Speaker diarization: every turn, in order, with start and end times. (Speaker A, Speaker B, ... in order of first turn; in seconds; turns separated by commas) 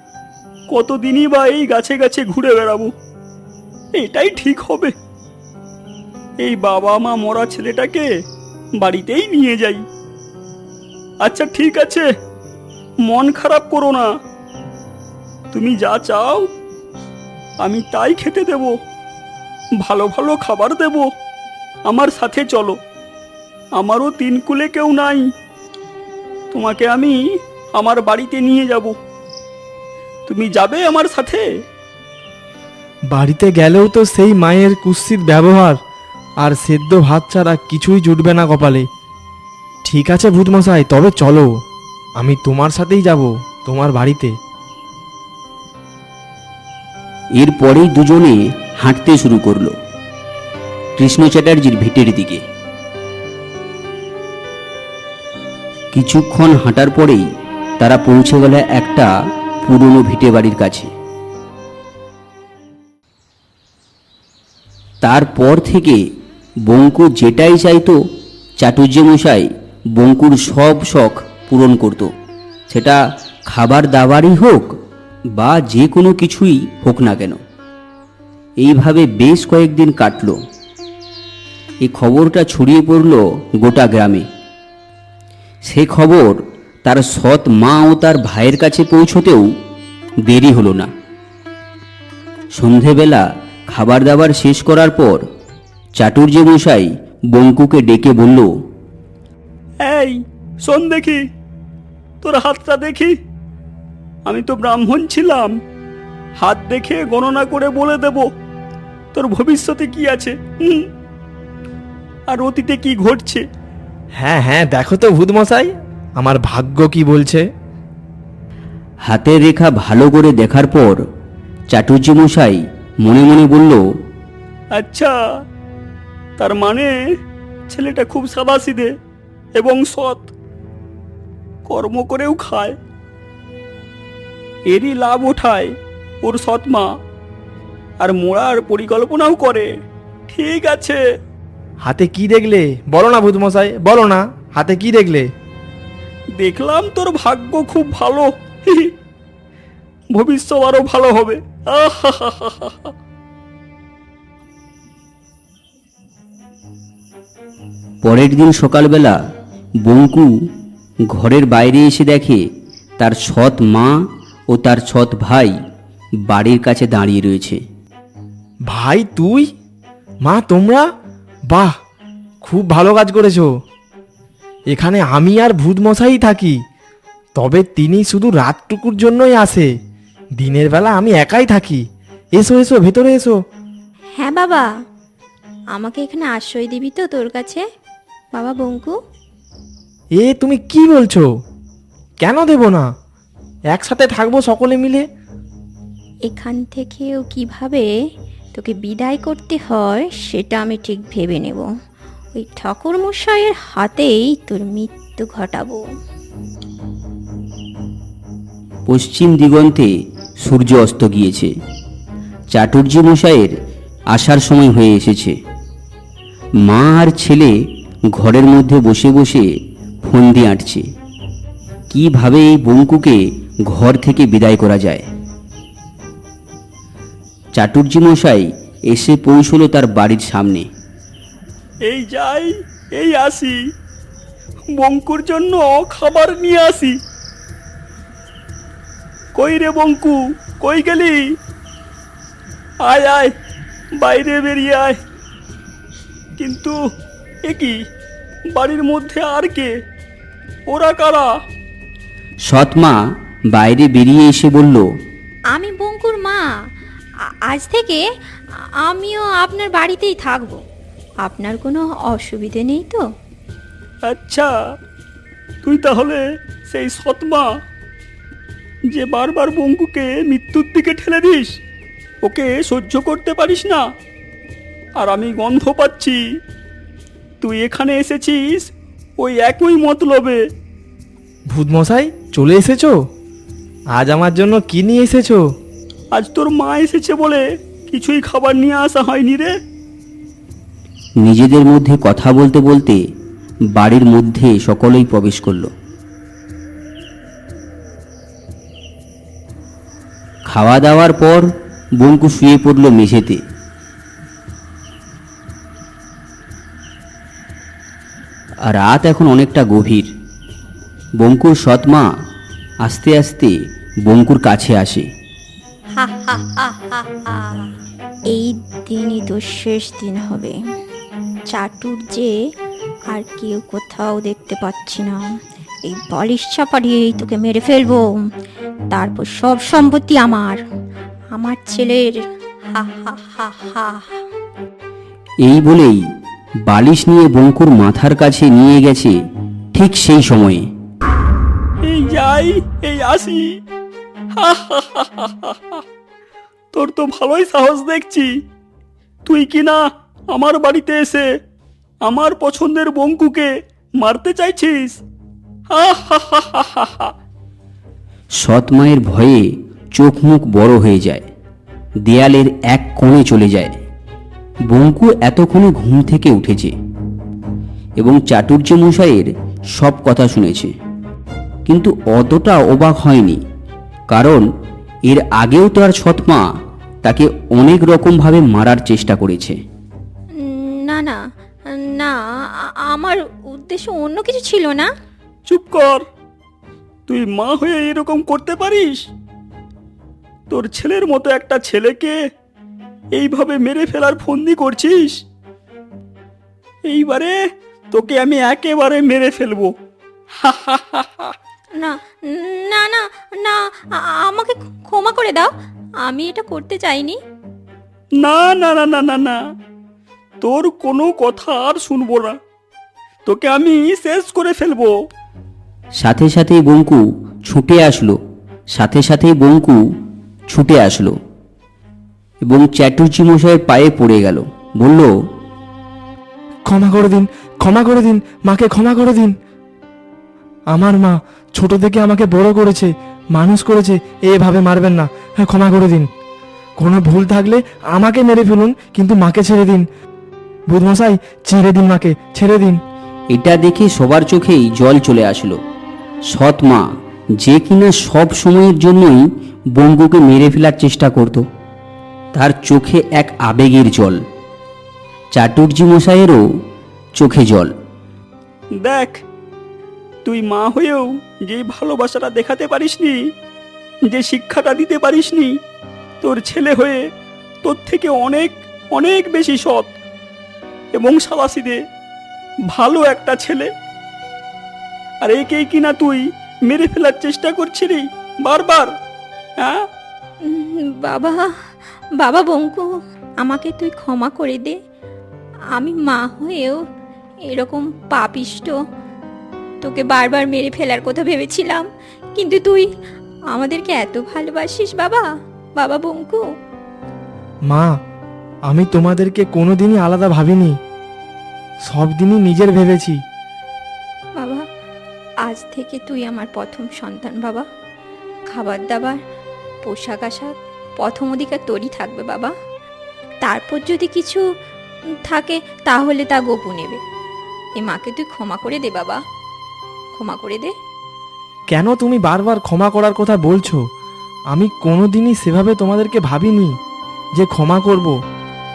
Speaker A: 0.7-2.9, Speaker A: 4.0-4.9, Speaker A: 6.4-8.1, Speaker A: 8.8-9.8, Speaker A: 11.2-12.1, Speaker A: 13.1-14.1, Speaker A: 15.5-16.5, Speaker A: 17.6-18.8, Speaker A: 19.8-21.1, Speaker A: 21.9-22.8, Speaker A: 23.8-25.3, Speaker A: 26.5-27.2, Speaker A: 27.8-29.0, Speaker A: 30.3-31.4, Speaker B: 33.1-35.8, Speaker B: 36.4-38.9, Speaker B: 39.9-41.6, Speaker B: 42.2-44.4, Speaker C: 47.4-49.7, Speaker C: 51.0-52.4, Speaker C: 55.9-57.3, Speaker C: 57.8-59.1, Speaker C: 59.6-60.9, Speaker C: 65.0-66.0, Speaker C: 66.7-68.0, Speaker C: 68.6-72.1, Speaker C: 72.7-74.8, Speaker C: 75.3-77.4, Speaker C: 78.6-80.4, Speaker C: 81.8-84.3, Speaker C: 85.7-89.5, Speaker C: 90.2-90.9, Speaker C: 92.6-95.2, Speaker C: 96.0-98.5, Speaker A: 99.8-101.2, Speaker A: 102.2-103.2, Speaker A: 104.3-105.5, Speaker A: 106.4-108.3, Speaker A: 109.1-110.9, Speaker A: 112.3-113.4, Speaker B: 114.2-117.5, Speaker C: 119.1-121.0, Speaker C: 121.7-123.8, Speaker A: 124.8-125.1, Speaker A: 126.4-126.9, Speaker A: 127.7-128.9, Speaker A: 129.6-130.3, Speaker A: 131.7-132.8, Speaker A: 134.7-135.7, Speaker A: 136.2-136.9, Speaker A: 138.0-139.7, Speaker A: 140.3-141.0, Speaker B: 141.8-145.3, Speaker A: 146.4-148.9, Speaker A: 150.1-152.9, Speaker C: 158.0-159.2, Speaker C: 159.8-160.3, Speaker C: 161.1-162.4, Speaker C: 163.0-164.0, Speaker C: 164.5-165.6, Speaker C: 166.2-167.6, Speaker B: 168.7-169.5, Speaker B: 170.2-170.9, Speaker B: 171.5-171.7, Speaker B: 172.4-173.5, Speaker B: 174.7-176.6, Speaker B: 177.4-179.7, Speaker B: 180.4-181.8, Speaker B: 182.4-183.4, Speaker D: 184.2-184.7, Speaker D: 185.7-187.6, Speaker D: 188.3-188.9, Speaker B: 190.2-191.3, Speaker B: 192.2-192.9, Speaker B: 193.7-195.1, Speaker D: 196.3-197.9, Speaker D: 198.5-201.7, Speaker D: 202.3-205.8, Speaker C: 208.9-209.9, Speaker C: 210.4-211.5, Speaker C: 212.5-213.5, Speaker C: 214.1-215.4, Speaker C: 216.7-217.5, Speaker C: 218.1-219.5, Speaker C: 220.1-220.9, Speaker C: 221.9-225.1, Speaker C: 227.6-230.7, Speaker A: 231.9-233.6, Speaker A: 234.8-236.9, Speaker A: 239.4-241.2, Speaker A: 242.9-243.3, Speaker A: 244.0-245.0, Speaker A: 246.4-246.8, Speaker A: 247.5-247.8, Speaker A: 248.6-249.7, Speaker A: 250.7-251.3, Speaker C: 252.5-253.0, Speaker C: 253.5-254.8, Speaker D: 255.5-256.4, Speaker D: 257.5-258.0, Speaker D: 258.8-260.6, Speaker D: 261.2-263.0, Speaker A: 264.1-264.5, Speaker A: 265.6-267.5, Speaker A: 268.9-271.6, Speaker A: 272.2-273.8, Speaker A: 275.0-276.2, Speaker A: 277.4-280.4, Speaker B: 281.5-283.0, Speaker B: 283.9-285.4, Speaker A: 286.1-289.5, Speaker C: 291.2-293.0, Speaker C: 293.8-295.7, Speaker C: 300.5-303.4, Speaker C: 308.7-310.1, Speaker C: 311.2-312.1, Speaker C: 312.8-315.1, Speaker D: 316.0-317.7, Speaker D: 318.3-320.6, Speaker D: 321.5-322.3, Speaker D: 323.1-325.2, Speaker D: 325.9-328.1, Speaker D: 328.9-330.6, Speaker D: 331.3-332.2, Speaker D: 332.7-334.2, Speaker C: 335.4-336.0, Speaker C: 336.7-339.2, Speaker C: 339.7-340.7, Speaker A: 341.9-343.6, Speaker A: 344.4-345.8, Speaker A: 346.7-348.3, Speaker A: 349.3-351.3, Speaker A: 352.1-355.0, Speaker A: 355.7-357.1, Speaker C: 358.4-361.3, Speaker C: 362.0-363.8, Speaker C: 364.7-366.7, Speaker C: 368.0-370.7, Speaker C: 371.7-373.4, Speaker C: 374.1-374.5, Speaker C: 375.1-376.4, Speaker C: 377.0-379.6, Speaker D: 380.4-381.2, Speaker D: 381.8-382.2, Speaker D: 382.9-384.9, Speaker A: 385.5-386.1, Speaker A: 387.1-389.1, Speaker A: 390.5-392.2, Speaker A: 393.2-395.2, Speaker A: 396.9-399.7, Speaker A: 400.4-401.3, Speaker D: 401.8-405.5, Speaker D: 406.0-407.2, Speaker A: 408.2-409.4, Speaker A: 410.4-412.4, Speaker A: 413.3-414.9, Speaker C: 416.0-418.2, Speaker C: 418.7-419.8, Speaker C: 420.5-421.2, Speaker C: 422.4-425.1, Speaker B: 426.7-429.4, Speaker B: 430.7-436.1, Speaker B: 436.8-439.9, Speaker B: 440.7-442.8, Speaker C: 443.3-445.6, Speaker C: 446.3-446.9, Speaker C: 447.4-449.2, Speaker C: 449.8-451.4, Speaker C: 452.4-454.2, Speaker C: 455.3-456.4, Speaker C: 457.2-457.7, Speaker A: 458.8-459.2, Speaker A: 460.2-463.2, Speaker A: 464.1-465.5, Speaker A: 466.2-467.0, Speaker A: 467.6-469.9, Speaker A: 470.9-471.8, Speaker A: 472.7-473.7, Speaker A: 475.2-478.9, Speaker A: 479.6-479.9, Speaker D: 480.5-481.5, Speaker D: 482.2-482.9, Speaker D: 483.4-484.8, Speaker D: 485.8-486.8, Speaker D: 487.5-488.7, Speaker D: 489.8-492.9, Speaker D: 493.5-495.2, Speaker D: 495.8-496.4, Speaker B: 497.7-498.0, Speaker B: 498.7-500.8, Speaker B: 501.9-503.2, Speaker D: 505.4-507.6, Speaker D: 508.5-509.2, Speaker D: 509.9-512.5, Speaker D: 513.4-514.4, Speaker D: 515.2-517.0, Speaker D: 517.8-519.2, Speaker D: 520.1-520.7, Speaker B: 521.7-523.8, Speaker B: 524.5-526.8, Speaker B: 527.4-528.1